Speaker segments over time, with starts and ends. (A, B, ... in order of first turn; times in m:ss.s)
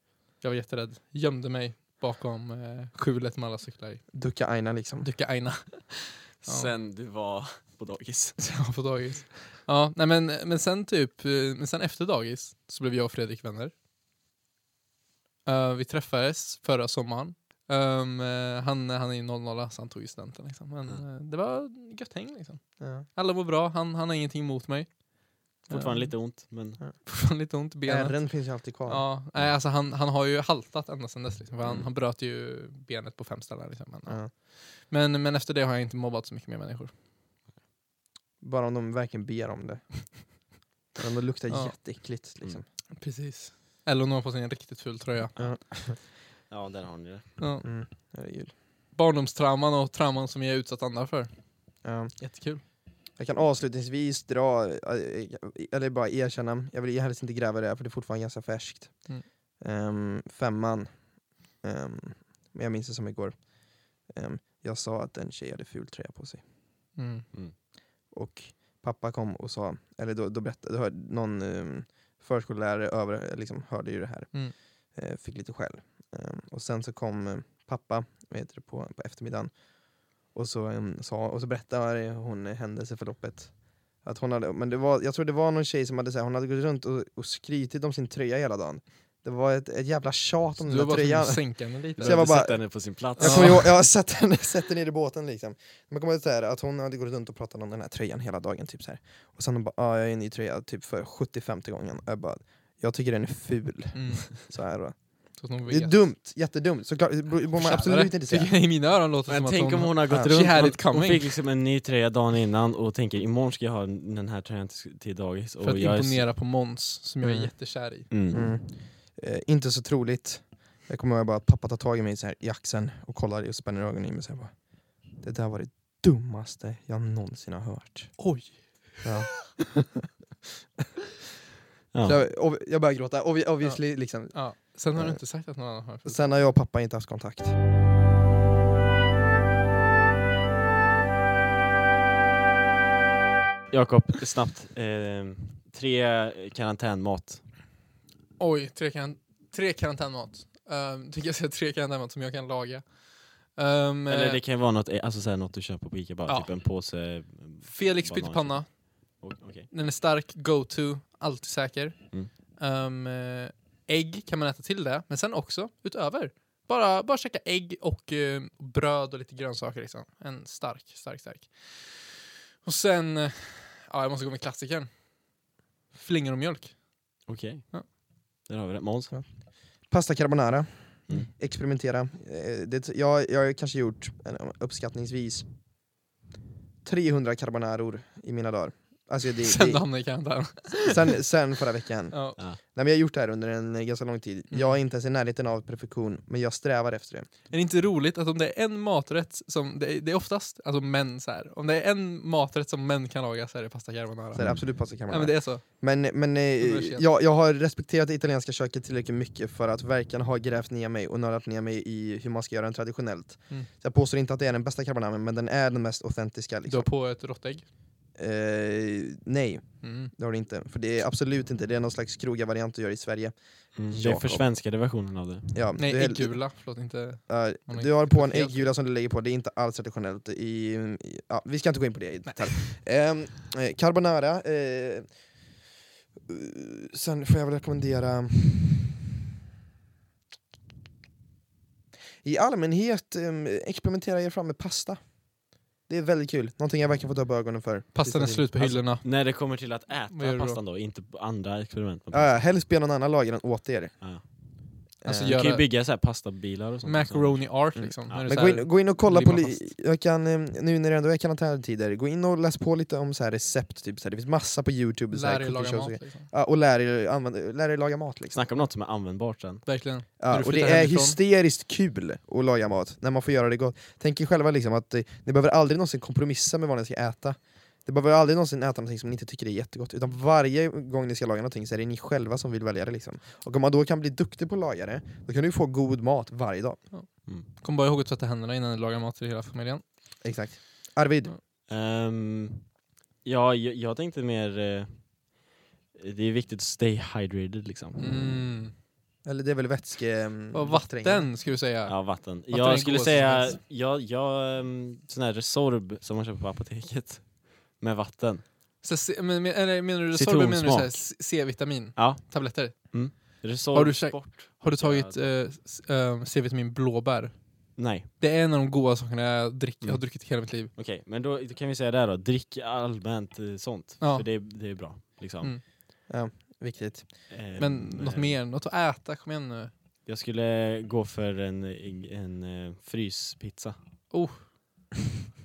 0:00.4-0:04.1 A
0:04.1-0:05.1 B
0:05.0-0:06.7 A
0:06.4-0:08.6 C
0:08.4-0:13.7 A
0:15.5-0:26.4 A
0:22.8-0:23.1 B
0:25.7-0:26.8 C
0:26.9-0:36.9 A
0:27.9-0:29.1 B
0:31.6-0:31.9 C
0:38.4-0:42.7 B
0:41.5-0:41.8 A
0:42.9-0:45.3 A
0:45.4-0:47.4 C
0:45.4-0:46.0 B
0:47.4-0:47.7 A
0:47.6-0:48.5 B
0:48.9-0:52.6 A
0:51.8-0:52.2 B
0:53.2-1:06.4 B
1:07.0-1:07.3 A
1:08.1-1:48.5 B
1:30.6-1:32.2 A
1:32.0-1:33.7 C
1:33.2-1:33.6 A
1:43.9-1:44.5 A
1:45.4-1:46.0 A
1:47.6-1:51.3 A
1:49.3-1:56.3 C
1:55.6-1:58.1 A
1:57.2-1:58.5 C
1:58.3-2:08.3 B
2:08.2-2:09.2 A
2:09.0-2:10.1 B
2:11.9-2:12.2 C
2:12.0-2:15.2 B
2:13.6-2:16.4 A
2:16.0-2:17.6 B
2:23.7-2:27.5 C
2:28.4-2:34.4 A
2:34.1-2:39.7 C
2:36.3-2:36.9 A
2:37.6-2:54.9 A
2:55.9-2:57.9 A
2:57.3-2:59.2 C
2:59.1-3:05.5 B
3:06.8-3:09.9 B
3:09.4-3:11.1 A
3:10.8-3:17.3 B
3:12.1-3:12.4 A
3:14.5-3:14.8 A
3:17.5-3:25.8 A
3:24.4-3:36.9 B
3:24.4-3:24.6 C
3:26.6-3:27.1 A
3:36.7-3:37.6 A
3:38.2-3:44.5 B
3:39.8-3:40.1 A
3:43.8-3:45.6 C
3:45.5-3:46.5 B
3:45.8-3:48.7 A
3:47.3-3:55.2 B
3:52.3-3:52.7 A
3:56.3-3:59.0 B
4:02.2-4:05.2 B
4:05.8-4:08.8 B
4:07.9-4:09.0 A
4:09.0-4:12.5 C
4:10.1-4:10.6 A
4:12.1-4:14.0 B
4:15.0-4:15.4 B
4:15.1-4:15.7 A
4:15.1-4:17.6 C
4:16.8-4:19.7 A
4:17.8-4:28.4 B
4:25.1-4:26.3 A
4:28.3-4:29.7 C
4:29.7-4:31.2 A
4:30.2-4:46.8 B
4:46.9-4:49.8 A
4:50.2-4:51.3 B
4:51.7-4:52.7 C
4:53.2-4:55.4 C
4:56.0-4:58.2 C
4:58.0-4:58.7 A
4:59.2-5:01.3 B
5:00.5-5:03.6 A
5:01.9-5:08.4 C
5:08.8-5:20.7 A
5:10.1-5:11.2 C
5:12.0-5:15.4 C
5:17.8-5:18.1 C
5:19.8-5:25.7 C
5:24.0-5:24.8 A
5:26.1-5:27.3 B
5:27.3-5:28.4 C
5:27.6-5:29.7 A
5:30.1-5:33.8 C
5:34.1-5:34.5 A